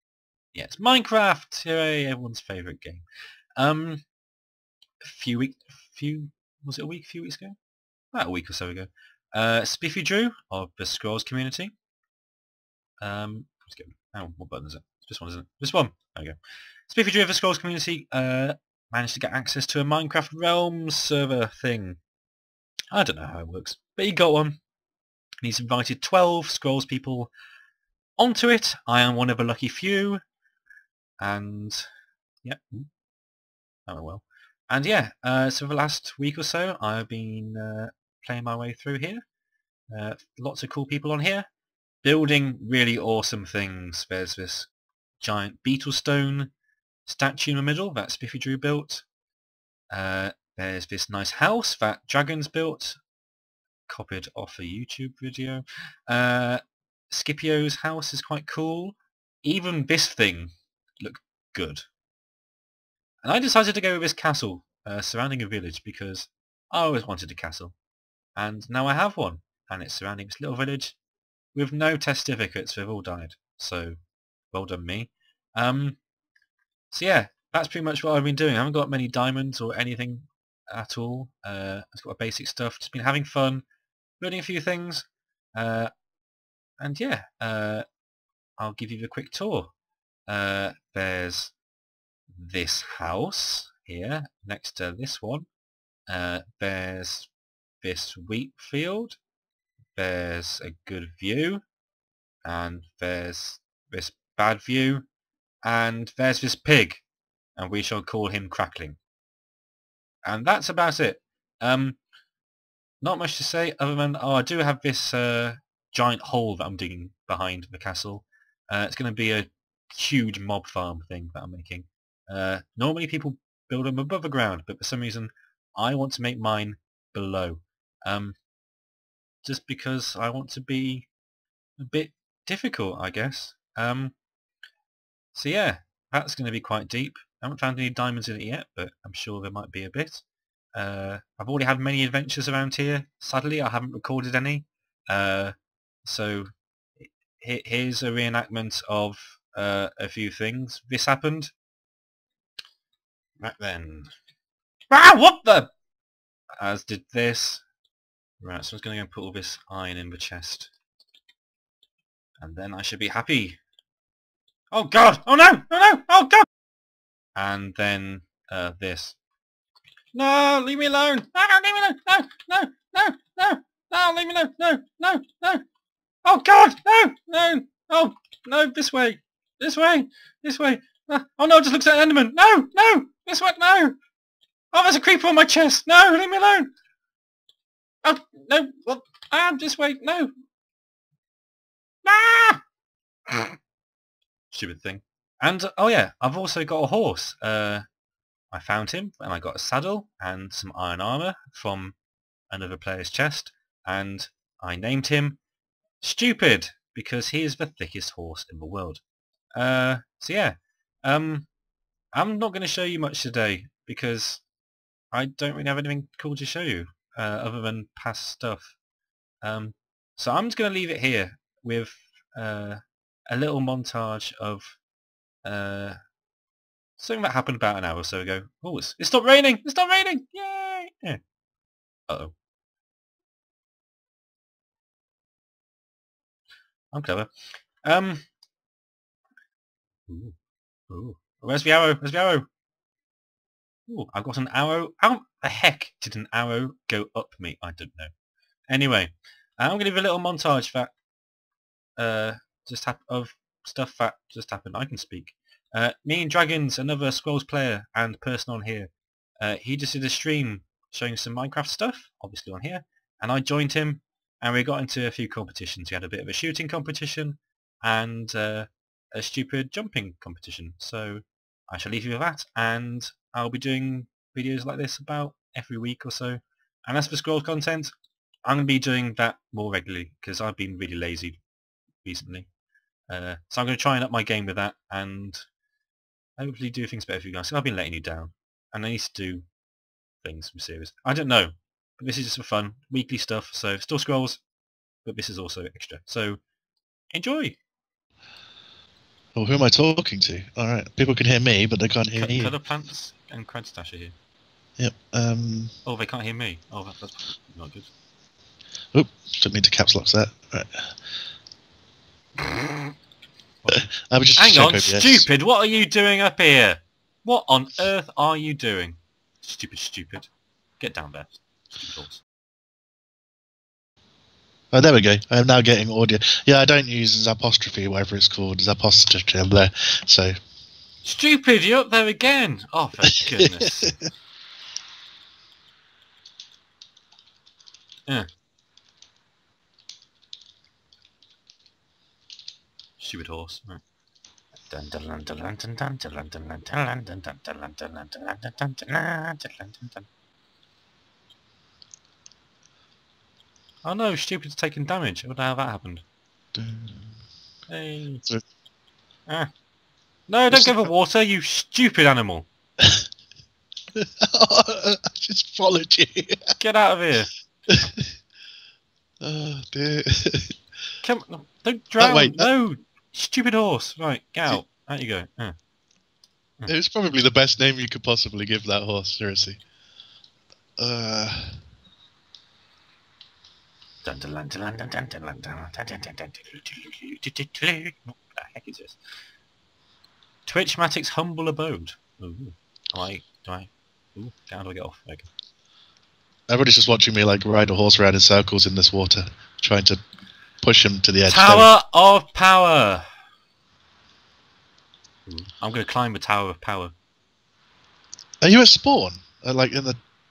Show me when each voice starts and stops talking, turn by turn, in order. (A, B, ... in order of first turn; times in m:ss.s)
0:00.5-0:03.0 A
0:03.6-0:04.0 A
0:05.0-0:07.6 A
0:08.1-0:11.7 A
0:13.0-0:16.4 A
0:16.9-0:22.0 A
0:22.9-0:24.6 A
0:25.4-0:27.3 A
0:28.2-0:30.2 A
0:31.2-0:31.9 A
0:32.4-0:32.9 A
0:33.9-0:39.2 A
0:39.9-0:41.5 A
0:42.0-0:46.5 A
0:47.0-0:49.0 A
0:49.9-0:53.0 A
0:53.9-1:01.8 A
1:03.2-1:07.7 A
1:08.4-1:11.0 A
1:11.5-1:14.0 A
1:14.5-1:16.0 A
1:16.9-1:23.6 A
1:24.2-1:25.9 A
1:26.8-1:27.8 A
1:28.6-1:29.7 A
1:30.3-1:31.5 A
1:32.3-1:35.5 A
1:36.1-1:37.3 A
1:37.8-1:39.2 A
1:39.9-1:41.6 A
1:42.4-1:45.1 A
1:45.6-1:47.0 A
1:47.6-1:49.0 A
1:50.2-1:52.0 A
1:53.0-2:08.4 A
2:09.4-2:11.1 A
2:11.8-2:14.1 A
2:15.3-2:20.2 A
2:20.7-2:25.5 A
2:26.0-2:31.5 A
2:33.4-2:34.1 A
2:34.9-2:35.7 A
2:36.6-2:37.6 A
2:38.4-2:40.7 A
2:42.4-2:43.6 A
2:44.7-2:46.4 A
2:47.3-2:49.2 A
2:50.1-2:55.6 A
2:56.2-3:03.9 A
3:04.7-3:06.7 A
3:08.0-3:10.3 A
3:12.0-3:12.6 A
3:13.3-3:13.6 A
3:14.5-3:17.8 A
3:18.5-3:22.0 A
3:22.5-3:25.4 A
3:26.0-3:29.0 A
3:29.5-3:31.5 A
3:32.1-3:34.4 A
3:35.1-3:38.8 A
3:39.4-3:44.8 A
3:45.4-3:46.0 A
3:47.0-3:51.2 A
3:52.1-3:52.3 A
3:56.9-3:58.2 A
4:00.1-4:00.4 A
4:00.9-4:02.5 A
4:03.9-4:08.1 A
4:08.7-4:10.9 A
4:12.0-4:37.9 A
4:38.4-4:41.4 A
4:42.0-4:42.5 A
4:43.1-4:45.4 A
4:46.4-4:49.4 A
4:50.2-4:54.4 A
4:55.0-4:56.4 A
4:57.1-4:57.6 A
4:59.3-5:02.5 B
5:02.1-5:04.1 A
5:04.8-5:05.7 B
5:05.8-5:07.9 A
5:08.9-5:10.9 B
5:12.4-5:12.9 A
5:13.6-5:22.2 A
5:13.7-5:15.2 B
5:24.7-5:30.4 B
5:31.0-5:34.0 A
5:33.1-5:34.0 B
5:43.0-5:43.8 A
5:44.7-5:50.1 A
5:53.8-5:56.0 A
5:56.5-5:57.1 B
5:57.7-5:58.2 A
6:00.3-6:02.5 A
6:00.5-6:00.9 B
6:03.9-6:06.6 B
6:06.6-6:07.3 A
6:07.7-6:08.0 B
6:09.2-6:10.6 B
6:11.0-6:15.5 A
6:12.0-6:12.5 B
6:16.7-6:19.6 B
6:20.8-6:21.6 B
6:24.0-6:29.0 A
6:30.5-6:35.3 A
6:36.5-6:40.0 B
6:40.6-6:41.7 B
6:41.3-6:43.0 A
6:45.3-6:46.9 A
6:48.4-6:50.0 B